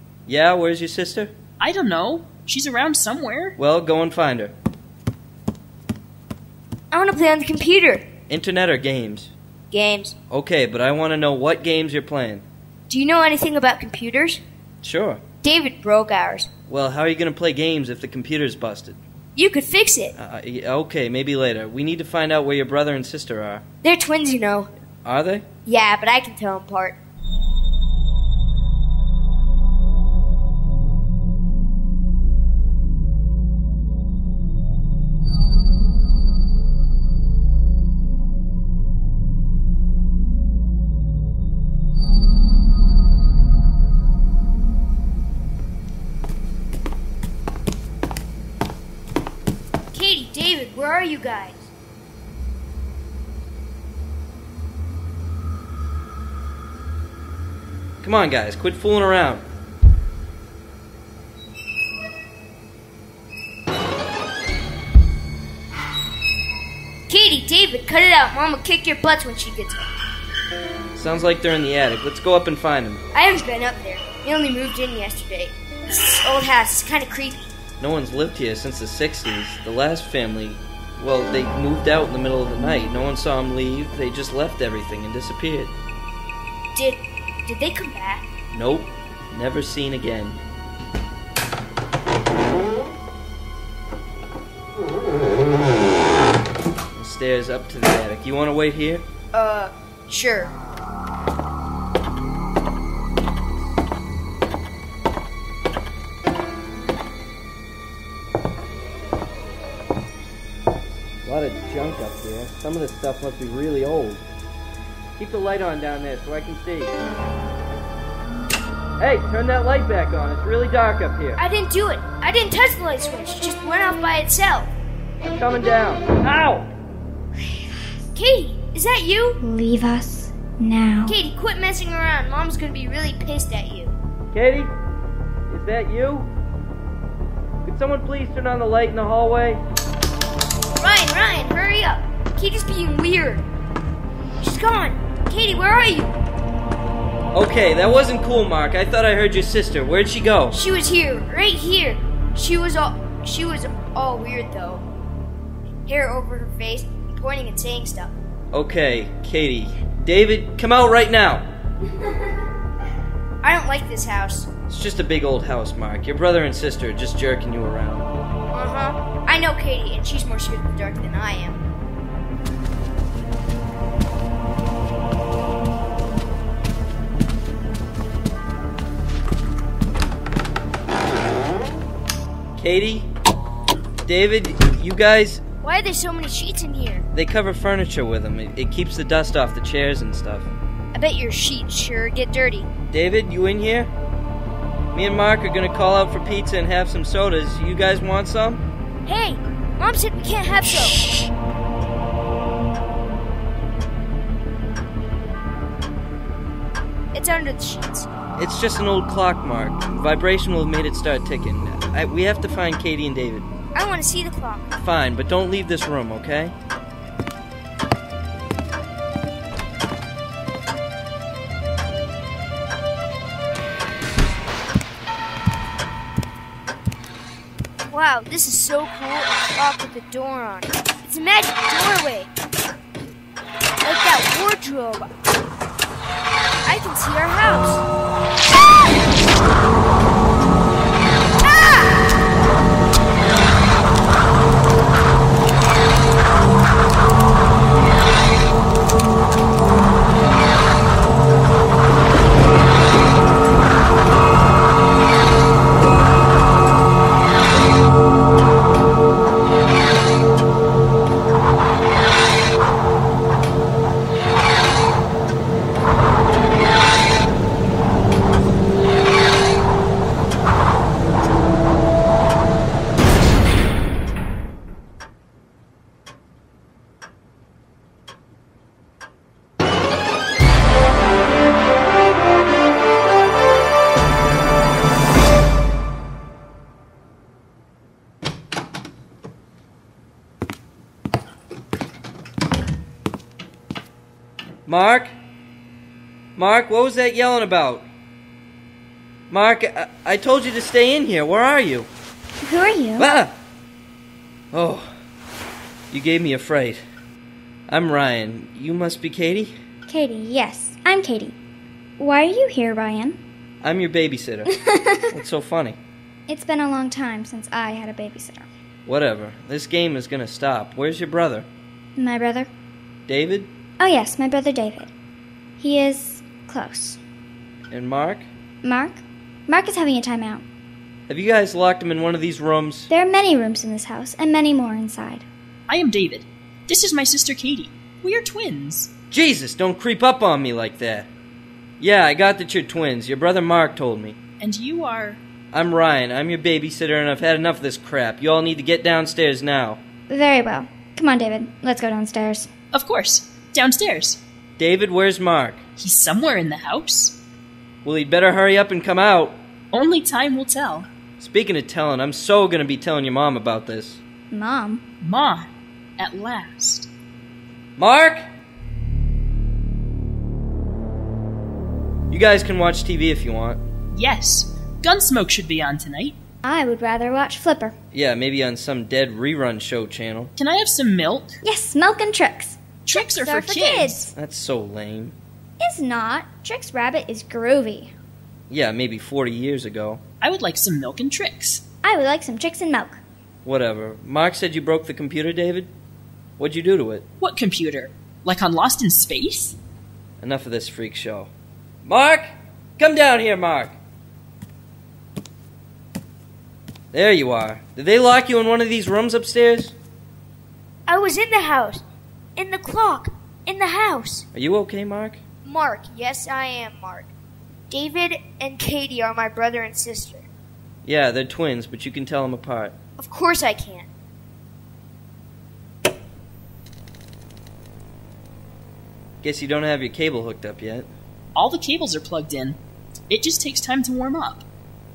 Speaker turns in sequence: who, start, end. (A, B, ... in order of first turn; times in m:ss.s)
0:00.3-0:01.3 A
0:01.6-0:03.6 B
0:03.6-0:04.5 A
0:06.9-0:08.0 C
0:08.3-0:09.3 A
0:09.7-0:10.1 C
0:10.3-0:12.4 A
0:12.9-0:14.4 C
0:14.8-0:15.2 A
0:15.4-0:16.5 C
0:16.7-0:19.0 A
0:19.4-0:20.1 C
0:20.2-0:23.6 A
0:23.8-0:24.7 C
0:25.0-0:25.4 A
0:25.6-0:27.0 C
0:49.9-0:51.7 C
0:58.0-0:59.4 A
1:07.1-1:09.9 C
1:10.9-1:13.0 A
1:13.1-1:17.5 C
1:17.8-1:25.7 A
1:26.7-1:28.3 C
1:28.5-1:30.4 A
1:37.0-1:39.0 A
1:39.3-1:40.5 C
1:51.2-1:54.2 A
1:55.2-1:56.9 A
1:59.0-2:01.4 A
2:01.4-2:04.7 C
2:05.2-2:06.7 A
2:08.1-2:09.4 C
2:09.4-2:11.1 D
2:11.1-2:13.9 C
2:14.3-2:14.7 A
2:15.5-2:16.3 A
2:17.6-2:19.6 A
2:20.8-2:23.4 C
2:24.4-2:26.1 C
2:27.3-2:30.6 A
2:30.5-2:34.8 C
2:35.8-2:38.1 C
2:38.5-2:41.4 A
2:43.4-2:44.5 C
2:44.7-2:48.1 A
2:48.5-2:51.6 C
3:02.6-3:03.1 A
3:04.0-3:05.4 A
3:05.6-3:07.1 C
3:07.1-3:10.5 A
3:10.9-3:12.7 C
3:12.9-3:13.9 A
3:14.9-3:18.6 A
3:19.0-3:21.2 C
3:27.1-3:28.1 C
3:28.4-3:33.4 A
3:33.7-3:34.7 C
3:34.7-3:36.5 A
3:47.9-3:52.3 C
3:53.8-3:55.1 C
3:56.6-3:57.8 C
4:01.4-4:01.9 C
4:54.6-4:55.1 A
4:56.4-4:57.9 A
4:59.3-5:01.9 A
5:02.4-5:03.1 D
5:03.0-5:03.3 A
5:04.5-5:04.9 A
5:05.9-5:06.8 A
5:07.7-5:09.5 A
5:09.9-5:11.4 D
5:12.0-5:13.2 D
5:13.6-5:14.6 A
5:14.5-5:15.1 D
5:15.1-5:15.8 A
5:16.3-5:18.4 D
5:18.8-5:21.5 A
5:22.0-5:22.5 D
5:23.1-5:23.5 A
5:23.8-5:24.9 D
5:25.6-5:27.0 D
5:27.7-5:28.3 A
5:28.6-5:30.4 D
5:31.1-5:32.9 A
5:32.9-5:35.2 D
5:35.7-5:38.9 B
5:39.1-5:41.1 A
5:41.8-5:44.2 A
5:44.4-5:45.2 B
5:45.5-5:49.8 A
5:50.1-5:52.5 D
5:52.7-5:54.2 B
5:54.6-5:55.6 A
5:55.8-5:57.2 B
5:57.8-5:59.4 A
5:59.7-6:00.9 B
6:01.2-6:04.0 A
6:04.3-6:04.8 D
6:05.0-6:06.9 B
6:07.8-6:08.2 A
6:12.1-6:13.6 A
6:13.9-6:16.2 B
6:16.4-6:17.7 D
6:17.9-6:20.3 A
6:20.4-6:21.4 B
6:21.4-6:24.1 D
6:22.8-6:24.1 B
6:24.1-6:25.1 A
6:25.6-6:27.9 D
6:28.5-6:30.0 A
6:30.2-6:31.6 B
6:31.8-6:33.0 D
6:33.4-6:35.7 A
6:36.4-6:37.0 A
6:37.2-6:39.6 B
6:40.2-6:41.3 A
6:41.8-6:43.8 A
6:46.9-6:49.7 A
6:50.9-6:51.8 C
6:52.4-6:54.2 C
6:54.3-6:55.2 A
6:55.4-6:57.1 C
6:57.7-7:00.3 C
7:00.8-7:02.7 A
7:03.0-7:03.9 C
7:09.2-7:10.9 A
7:11.3-7:12.6 B
7:13.1-7:14.4 B